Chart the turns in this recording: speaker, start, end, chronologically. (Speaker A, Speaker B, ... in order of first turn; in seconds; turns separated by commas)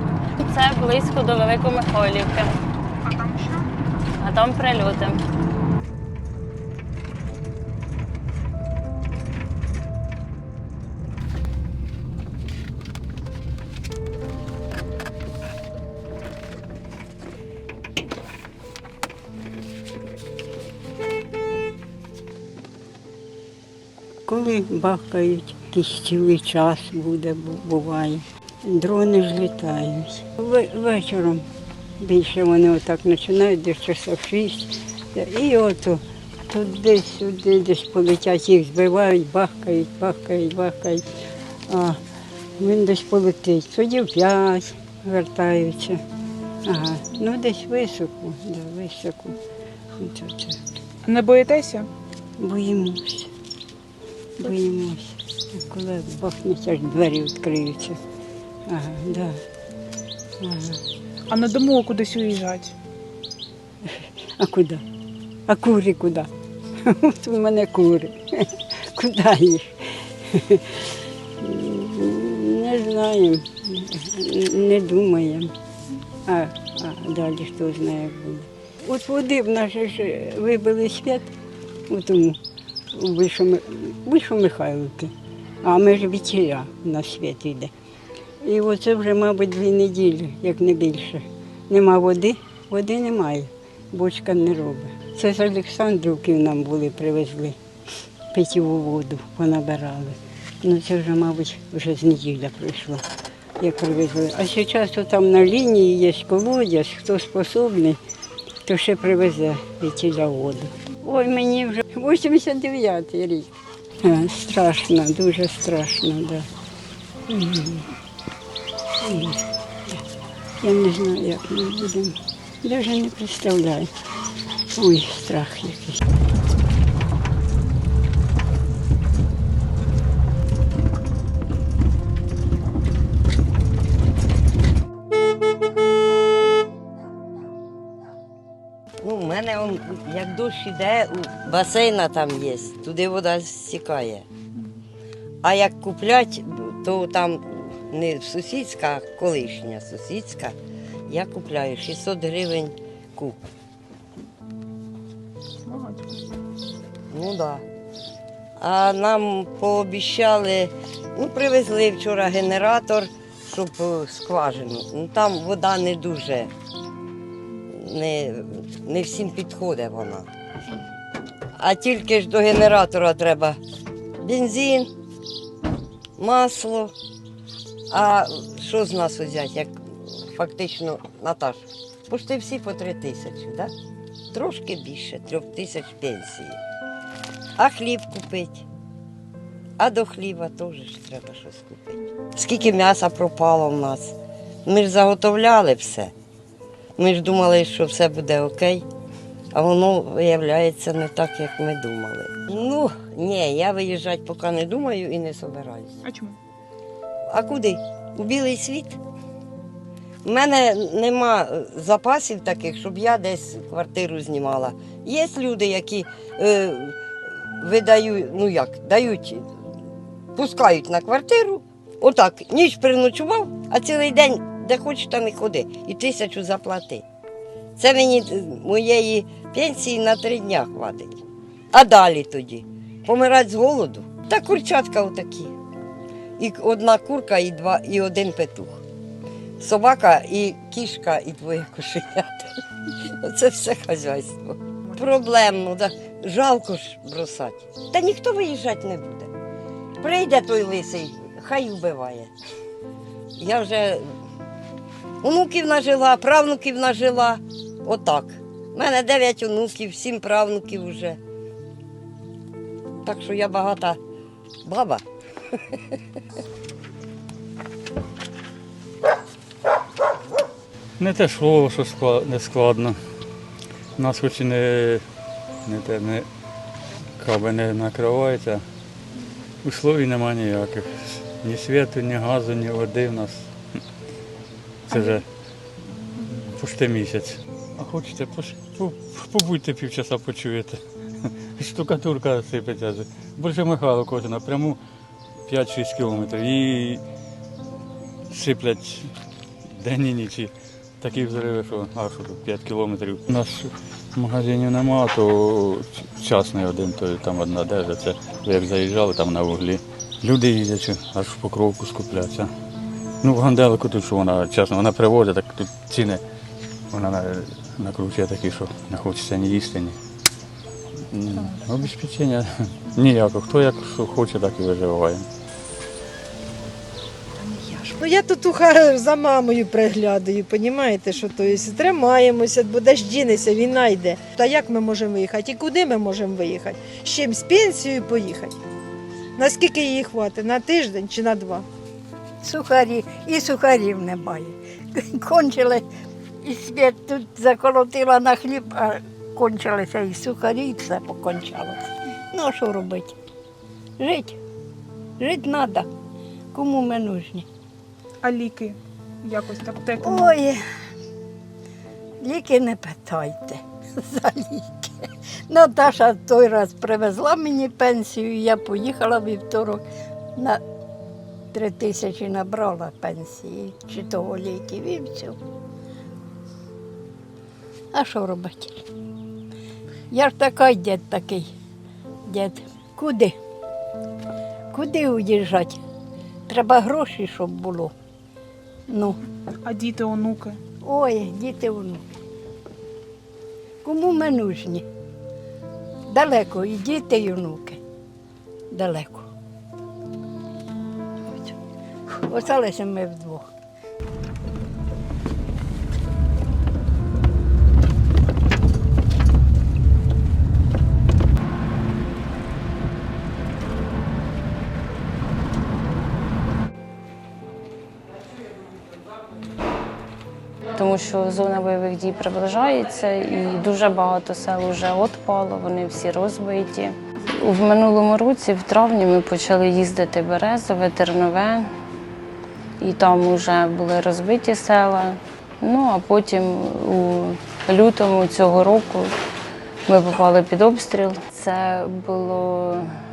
Speaker A: 0.4-2.6, Speaker B: 3.0-3.7, Speaker A: 4.2-5.2, Speaker C: 24.3-31.5, Speaker C: 32.0-41.0, Speaker C: 41.7-42.0, Speaker C: 42.6-46.0, Speaker C: 46.6-49.4, Speaker C: 50.0-50.6, Speaker B: 51.0-51.9, Speaker C: 52.4-53.3, Speaker C: 54.4-58.0, Speaker C: 58.7-59.4, Speaker C: 60.4-60.8, Speaker B: 61.3-62.8, Speaker C: 64.4-64.8, Speaker C: 65.5-66.3, Speaker C: 66.8-70.8, Speaker C: 71.4-75.5, Speaker C: 76.3-81.3, Speaker C: 81.9-82.4, Speaker C: 82.9-87.7, Speaker C: 88.4-97.6, Speaker C: 98.3-103.0, Speaker C: 103.6-108.0, Speaker C: 108.7-113.5, Speaker C: 114.0-116.5, Speaker C: 117.3-117.9, Speaker C: 119.0-120.0, Speaker C: 120.6-123.9, Speaker C: 124.8-126.0, Speaker D: 139.0-144.3, Speaker D: 145.4-150.6, Speaker D: 151.1-153.4, Speaker B: 155.7-156.3, Speaker D: 157.1-157.6, Speaker D: 158.6-166.5, Speaker D: 167.7-170.3, Speaker D: 171.6-173.6, Speaker D: 174.2-174.9, Speaker D: 176.2-176.9, Speaker D: 177.9-183.7, Speaker D: 184.3-186.6, Speaker D: 187.6-188.7, Speaker D: 189.8-196.1, Speaker D: 197.0-198.9, Speaker D: 199.5-206.0, Speaker B: 206.0-206.4, Speaker D: 207.3-209.0, Speaker D: 210.2-217.0, Speaker D: 217.6-219.5, Speaker D: 220.3-227.0, Speaker D: 227.8-231.2, Speaker D: 231.7-235.5, Speaker D: 236.4-238.8, Speaker D: 239.6-242.5, Speaker D: 243.2-249.3, Speaker D: 250.0-252.3, Speaker D: 253.4-254.0, Speaker D: 255.2-261.2, Speaker D: 263.0-264.0, Speaker D: 264.6-265.0, Speaker E: 271.0-273.0, Speaker E: 274.0-275.0, Speaker E: 275.6-276.3, Speaker E: 277.2-278.6, Speaker E: 279.6-283.5, Speaker E: 284.9-285.3, Speaker E: 286.3-294.8, Speaker E: 295.5-297.0, Speaker E: 298.3-299.1, Speaker E: 299.6-312.5, Speaker E: 313.2-316.2, Speaker E: 316.9-320.0, Speaker E: 321.1-325.3, Speaker B: 327.5-327.9, Speaker F: 328.0-338.6, Speaker F: 339.4-341.7, Speaker C: 342.4-345.8, Speaker C: 346.4-353.2, Speaker C: 354.0-354.4, Speaker C: 355.2-355.9, Speaker C: 356.5-357.5, Speaker B: 358.2-360.4, Speaker C: 360.0-360.6, Speaker C: 362.2-369.8, Speaker C: 370.4-370.6, Speaker C: 371.5-375.4, Speaker C: 377.9-378.9, Speaker C: 380.1-381.5, Speaker C: 382.3-383.4, Speaker C: 384.7-385.8, Speaker C: 386.5-387.9, Speaker C: 388.9-389.2, Speaker B: 389.6-390.6, Speaker C: 390.9-392.0, Speaker C: 393.8-394.9, Speaker C: 396.1-397.8, Speaker C: 398.7-399.3, Speaker C: 402.3-403.5, Speaker A: 420.7-431.7, Speaker A: 432.8-439.1, Speaker A: 439.9-442.9